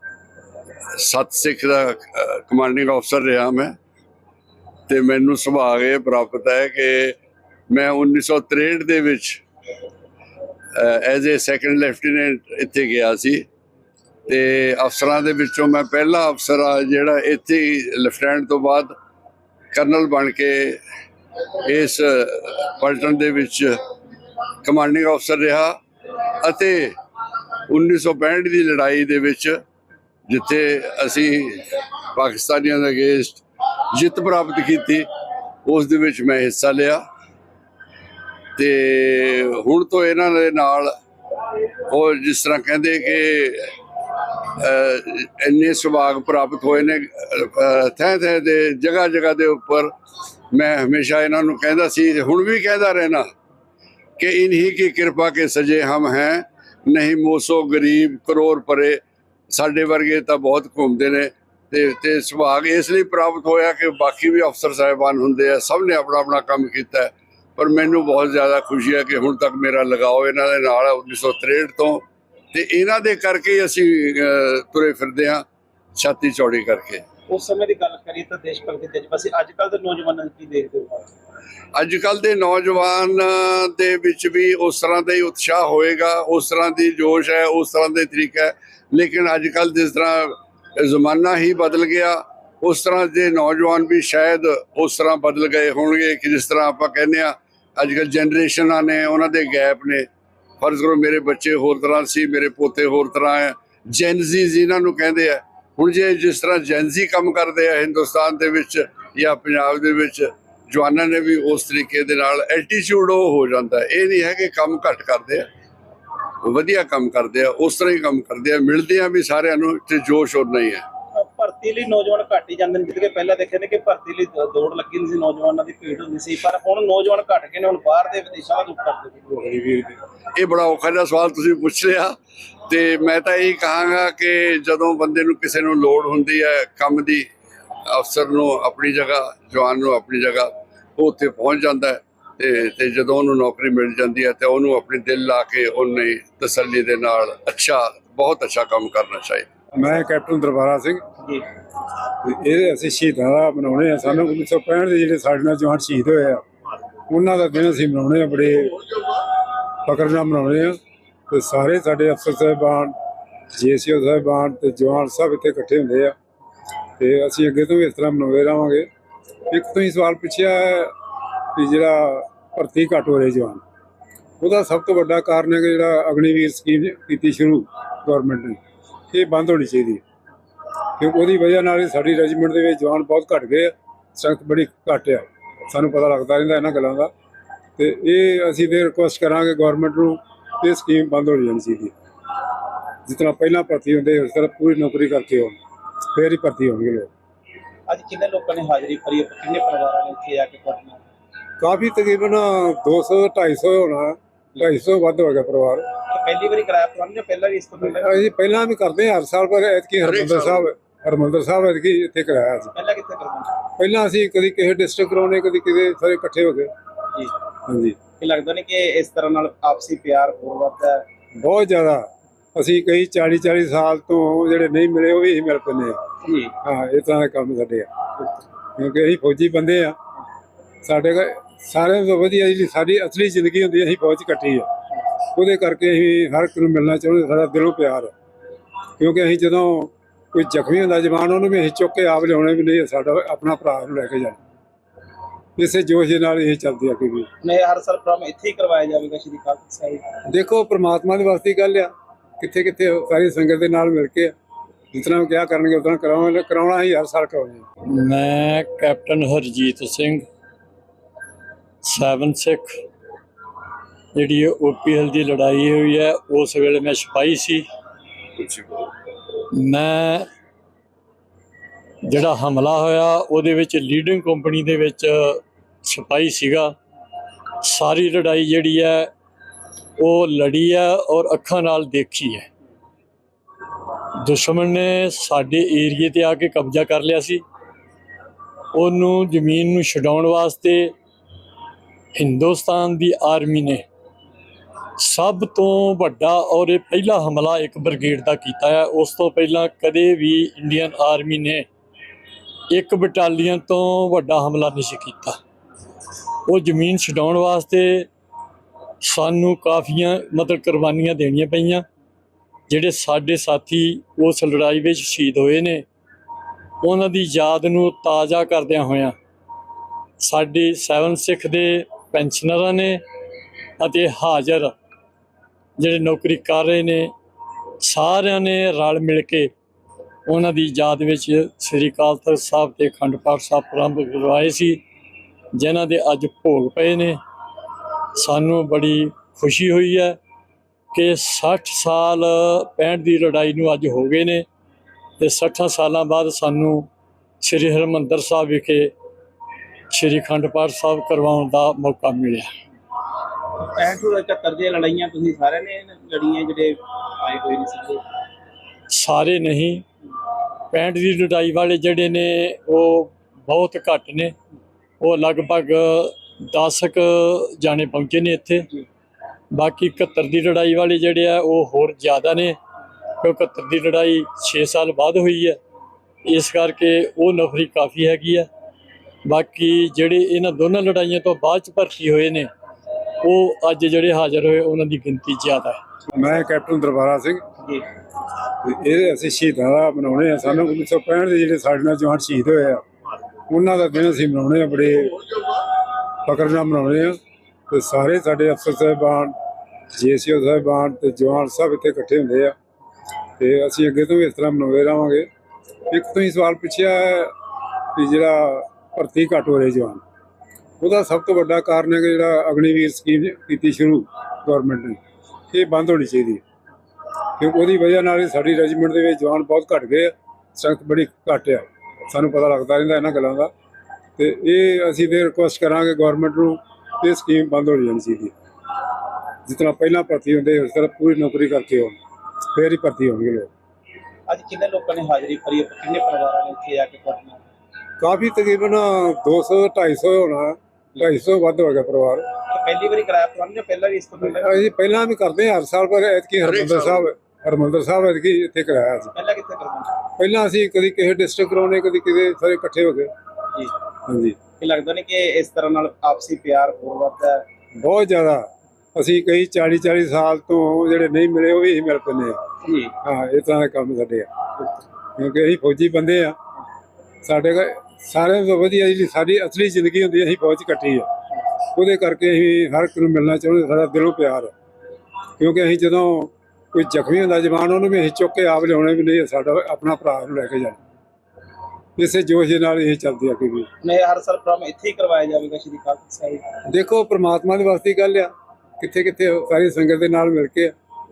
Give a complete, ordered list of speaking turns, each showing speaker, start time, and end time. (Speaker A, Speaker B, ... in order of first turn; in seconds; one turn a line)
Speaker A: 1.0-3.7
Speaker A: 4.9-7.2
Speaker A: 7.7-9.4
Speaker A: 10.8-13.4
Speaker A: 14.3-18.9
Speaker A: 19.7-20.8
Speaker A: 21.6-23.8
Speaker A: 24.6-25.7
Speaker A: 26.4-26.9
Speaker A: 27.7-29.6
Speaker A: 30.3-35.1
Speaker A: 35.6-37.0
Speaker A: 38.6-40.9
Speaker A: 41.9-43.7
Speaker A: 44.5-49.9
Speaker A: 50.5-53.2
Speaker A: 54.2-75.4
Speaker A: 76.0-77.0
Speaker B: 77.3-81.1
Speaker A: 81.7-100.1
Speaker A: 100.6-115.5
Speaker A: 116.4-120.8
Speaker B: 121.1-129.3
Speaker C: 129.3-130.0
Speaker A: 130.3-132.1
Speaker A: 132.7-137.3
Speaker A: 137.9-149.4
Speaker C: 149.7-151.0
Speaker C: 152.2-156.4
Speaker C: 157.1-158.8
Speaker C: 159.8-160.8
Speaker C: 161.3-162.9
Speaker C: 163.5-166.1
Speaker C: 167.0-168.9
Speaker C: 169.5-170.9
Speaker C: 171.5-173.6
Speaker C: 174.4-178.6
Speaker C: 179.1-180.0
Speaker C: 181.0-187.1
Speaker C: 187.8-191.9
Speaker C: 193.1-195.6
Speaker C: 196.1-197.1
Speaker B: 197.9-201.0
Speaker C: 201.6-205.9
Speaker B: 206.1-208.2
Speaker C: 207.9-212.7
Speaker A: 210.0-210.7
Speaker B: 212.7-213.5
Speaker C: 213.8-216.7
Speaker C: 217.7-218.0
Speaker B: 218.2-221.0
Speaker C: 221.3-226.0
Speaker B: 226.2-226.5
Speaker C: 226.6-227.9
Speaker C: 228.8-229.9
Speaker C: 230.8-234.7
Speaker C: 235.3-238.1
Speaker C: 239.0-244.4
Speaker C: 245.6-247.3
Speaker B: 247.4-250.1
Speaker C: 250.2-254.3
Speaker C: 254.9-257.6
Speaker D: 257.9-260.2
Speaker D: 261.8-262.8
Speaker D: 264.1-267.6
Speaker A: 268.4-268.9
Speaker D: 269.5-270.3
Speaker D: 272.0-276.7
Speaker D: 277.6-279.1
Speaker D: 280.0-282.5
Speaker D: 284.2-287.4
Speaker D: 288.7-290.9
Speaker D: 292.1-293.8
Speaker D: 295.0-301.6
Speaker D: 302.7-305.4
Speaker D: 306.4-308.1
Speaker D: 309.0-311.8
Speaker D: 312.7-315.8
Speaker D: 316.8-319.1
Speaker D: 320.2-323.0
Speaker D: 323.8-324.7
Speaker D: 325.8-327.1
Speaker D: 327.8-329.5
Speaker D: 330.3-334.8
Speaker D: 335.5-337.2
Speaker D: 338.1-340.2
Speaker D: 340.9-344.4
Speaker D: 345.2-346.9
Speaker D: 347.4-348.9
Speaker D: 349.9-352.5
Speaker B: 353.7-358.0
Speaker D: 358.9-359.8
Speaker D: 360.7-364.3
Speaker D: 365.0-368.7
Speaker D: 369.5-372.6
Speaker D: 373.2-375.6
Speaker D: 376.2-378.5
Speaker D: 379.2-382.5
Speaker D: 383.2-385.8
Speaker C: 386.1-387.4
Speaker C: 388.6-392.8
Speaker C: 393.5-395.2
Speaker C: 396.2-397.2
Speaker C: 397.7-399.4
Speaker C: 399.9-402.5
Speaker C: 403.4-405.3
Speaker C: 405.9-407.3
Speaker C: 407.9-410.0
Speaker C: 410.8-415.0
Speaker C: 415.5-416.4
Speaker C: 417.4-423.5
Speaker C: 424.2-428.3
Speaker C: 429.4-432.0
Speaker C: 432.5-433.5
Speaker B: 434.3-437.4
Speaker C: 438.0-442.3
Speaker B: 442.5-444.6
Speaker C: 444.2-449.1
Speaker A: 446.4-447.1
Speaker B: 449.1-449.9
Speaker C: 450.2-453.1
Speaker C: 454.1-454.4
Speaker B: 454.6-457.4
Speaker C: 457.8-462.4
Speaker B: 462.6-462.9
Speaker C: 463.0-464.3
Speaker C: 465.1-466.4
Speaker C: 467.2-471.1
Speaker C: 471.8-474.5
Speaker C: 475.4-480.8
Speaker C: 482.0-483.7
Speaker B: 483.8-486.5
Speaker C: 486.6-490.7